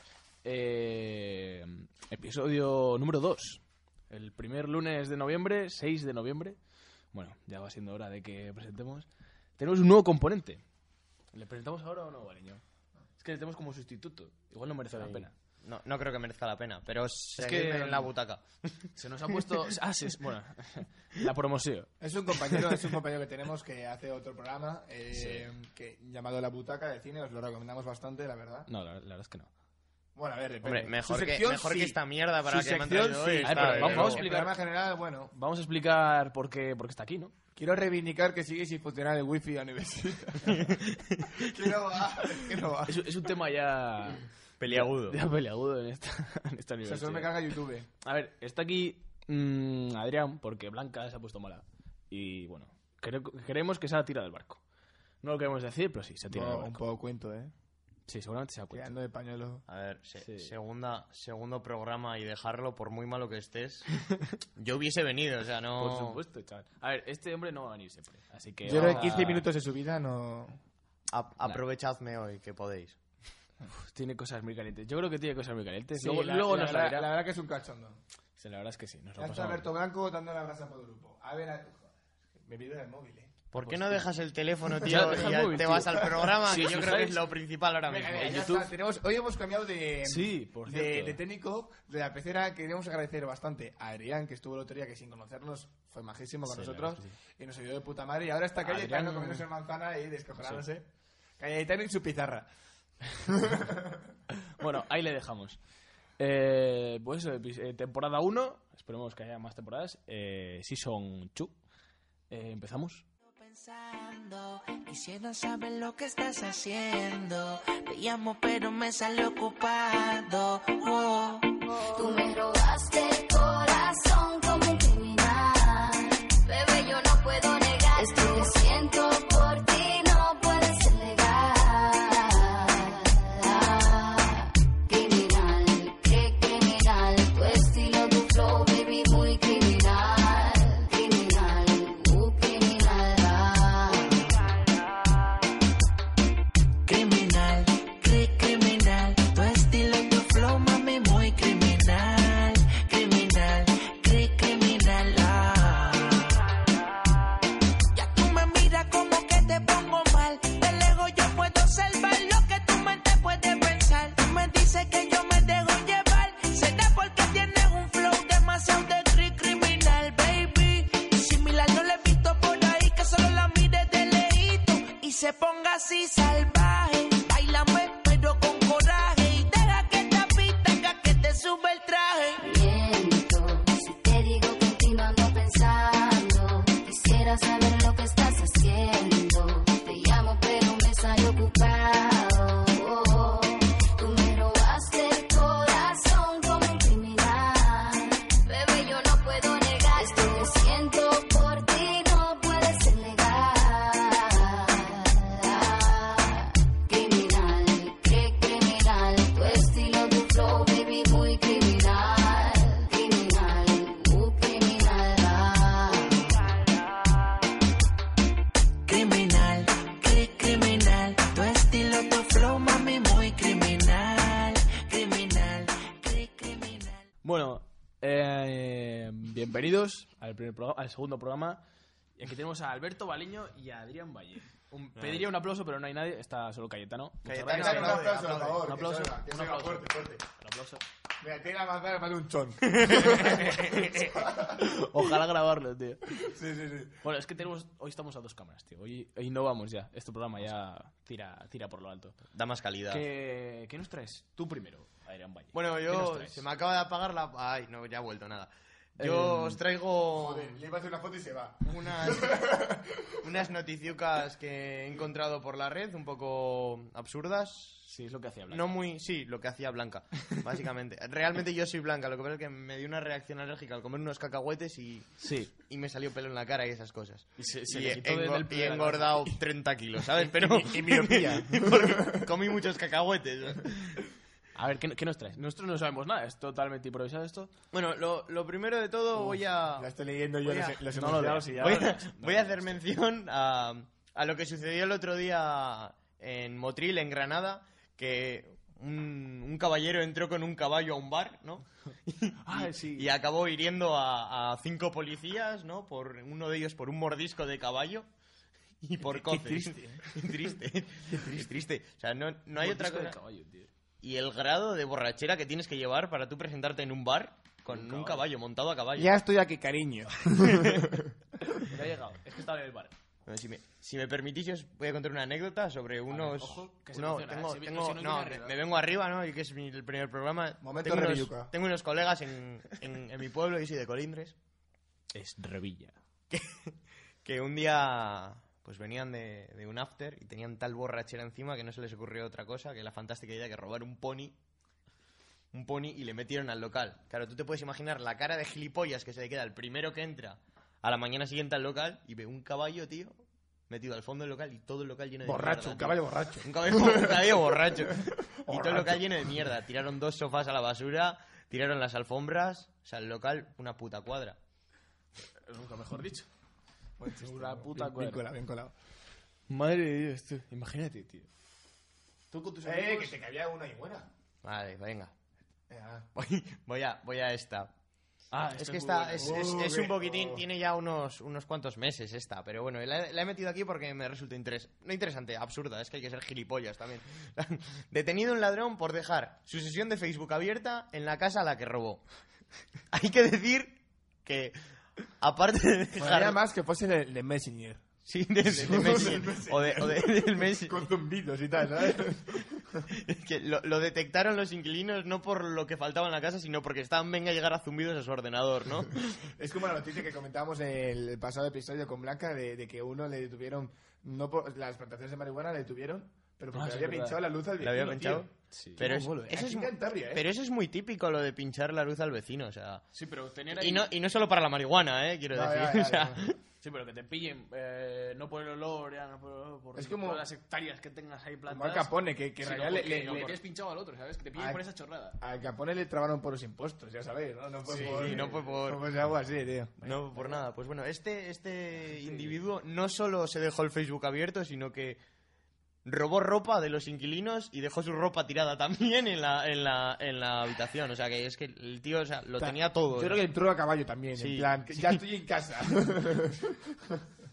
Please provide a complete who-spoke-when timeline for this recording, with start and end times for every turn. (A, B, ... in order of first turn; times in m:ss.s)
0:00.4-0:06.6 A
0:07.1-0:09.1 A
0:09.6-0:10.6 A
0:11.3-0:12.6 A
0:13.2-0:15.3 A
0:15.0-0:18.9 B
0:17.4-0:18.1 A
0:19.0-0:21.9 A
0:22.0-0:28.7 C
0:25.1-0:25.5 A
0:28.7-0:29.5 A
0:30.2-0:35.3 C
0:30.6-0:34.2 B
0:33.4-0:34.6 A
0:35.3-0:37.4 A
0:37.6-0:43.1 C
0:40.5-0:41.5 B
0:42.8-0:47.5 A
0:44.6-0:45.2 B
0:46.8-0:47.9 C
0:48.0-0:54.6 A
0:55.2-0:56.8 A
0:56.3-0:57.5 C
0:58.1-0:59.0 A
0:58.7-0:59.6 C
0:59.7-1:03.9 B
1:00.2-1:00.5 A
1:04.6-1:06.2 B
1:05.8-1:09.5 A
1:08.6-1:10.6 C
1:08.7-1:09.3 B
1:11.1-1:13.0 B
1:13.7-1:17.1 A
1:16.0-1:18.0 C
1:18.4-1:19.7 A
1:19.2-1:23.4 C
1:23.5-1:28.4 B
1:23.6-1:24.1 A
1:24.8-1:26.3 C
1:24.8-1:27.3 A
1:27.8-1:40.9 C
1:28.2-1:28.7 A
1:30.0-1:31.2 A
1:36.5-1:37.2 A
1:38.6-1:39.5 A
1:41.4-1:42.5 C
1:43.2-1:44.1 C
1:44.4-1:45.6 A
1:46.2-1:51.6 A
1:52.3-1:53.0 A
1:53.3-2:01.6 D
2:02.0-2:24.4 E
2:26.8-2:36.4 D
2:37.9-3:02.4 D
3:02.4-3:36.4 E
3:38.9-3:47.0 D
3:47.2-3:51.6 A
3:52.2-3:58.1 A
3:55.0-3:55.3 B
3:57.2-3:58.7 B
3:57.5-4:00.2 C
3:58.7-4:00.8 A
4:01.2-4:04.7 C
4:02.8-4:03.6 B
4:03.3-4:06.3 A
4:06.1-4:07.0 C
4:07.0-4:12.2 A
4:12.3-4:13.0 B
4:12.9-4:16.4 A
4:15.5-4:20.6 B
4:19.0-4:19.6 A
4:20.1-4:23.3 C
4:21.6-4:22.6 B
4:23.2-4:27.9 B
4:27.9-4:28.8 A
4:28.5-4:44.0 B
4:35.2-4:35.5 A
4:37.4-4:39.4 A
4:40.2-4:42.3 C
4:44.6-4:47.5 A
4:47.7-4:49.9 B
4:49.2-4:51.8 C
4:50.4-5:08.1 B
4:50.9-4:52.8 A
5:02.4-5:03.1 A
5:08.8-5:13.2 B
5:09.0-5:10.1 C
5:11.1-5:11.5 C
5:12.6-5:13.7 A
5:14.0-5:19.1 B
5:17.7-5:18.2 A
5:19.0-5:21.7 C
5:20.4-5:20.8 B
5:21.6-5:23.0 A
5:23.3-5:34.4 B
5:26.1-5:28.6 A
5:30.6-5:31.5 C
5:35.1-5:36.0 A
5:36.3-5:44.4 B
5:45.5-6:04.4 B
5:55.2-5:59.4 C
6:05.3-6:06.3 A
6:07.0-6:08.8 C
6:07.2-6:08.2 A
6:09.5-6:11.3 A
6:12.3-6:13.2 A
6:12.6-6:14.1 C
6:14.4-6:15.1 B
6:15.7-6:16.1 C
6:16.2-6:17.7 B
6:18.3-6:19.5 A
6:18.5-6:32.0 B
6:19.2-6:20.4 C
6:32.9-6:34.6 B
6:35.2-6:36.4 B
6:36.0-6:37.8 C
6:38.1-6:40.9 B
6:38.4-6:42.9 C
6:42.9-6:49.0 B
6:49.2-7:00.3 C
6:56.5-6:57.2 A
6:57.6-7:02.8 B
6:58.5-6:58.8 A
7:02.9-7:03.9 A
7:03.5-7:06.4 B
7:05.3-7:06.3 C
7:06.6-7:15.2 A
7:09.8-7:10.2 C
7:11.5-7:13.4 C
7:14.4-7:14.6 C
7:15.2-7:19.8 C
7:17.7-7:18.5 A
7:17.8-7:18.8 B
7:19.8-7:20.4 A
7:19.8-7:25.0 B
7:21.9-7:22.4 A
7:25.8-7:33.2 B
7:32.4-7:37.1 C
7:34.2-7:35.0 B